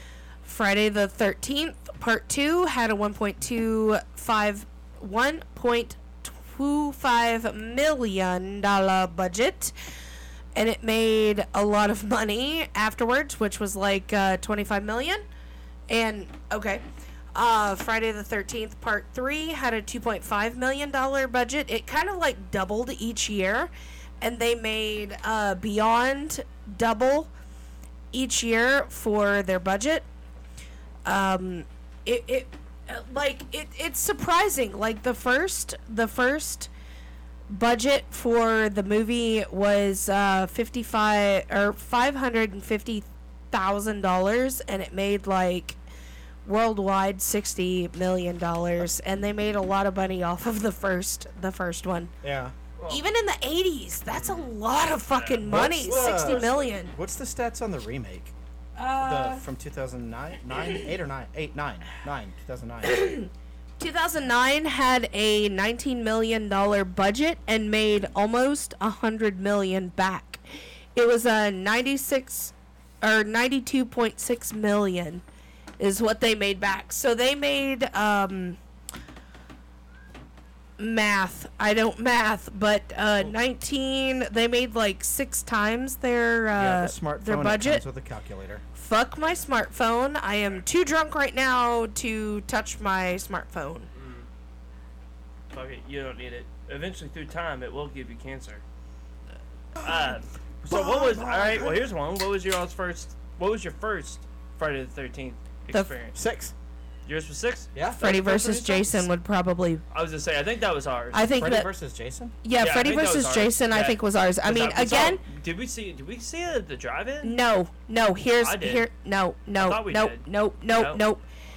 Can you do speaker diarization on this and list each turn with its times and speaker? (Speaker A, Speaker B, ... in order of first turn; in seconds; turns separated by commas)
Speaker A: 0.4-9.7, Speaker A: 10.6-15.2, Speaker A: 15.9-16.8, Speaker A: 17.3-27.3, Speaker A: 28.1-30.1, Speaker A: 31.1-36.7, Speaker A: 37.5-45.8, Speaker A: 46.4-52.1, Speaker B: 52.2-52.5, Speaker C: 52.8-53.0, Speaker A: 52.9-56.9, Speaker C: 54.1-54.5, Speaker C: 55.1-56.7, Speaker B: 55.4-58.3, Speaker A: 58.8-59.5, Speaker B: 59.0-63.1, Speaker A: 62.8-70.4, Speaker A: 70.9-75.2, Speaker A: 75.8-78.6, Speaker A: 80.8-87.8, Speaker B: 86.5-88.6, Speaker A: 88.7-93.9, Speaker C: 93.9-94.3, Speaker C: 95.5-98.6, Speaker C: 99.8-106.2, Speaker B: 100.6-101.8, Speaker B: 106.1-106.5, Speaker C: 107.0-109.1, Speaker B: 107.7-108.1, Speaker A: 108.0-109.8, Speaker C: 109.9-111.2, Speaker A: 111.1-111.7, Speaker B: 111.4-112.3, Speaker A: 112.4-115.2, Speaker C: 112.6-117.4, Speaker A: 117.2-121.2, Speaker C: 118.4-118.9, Speaker C: 119.6-121.0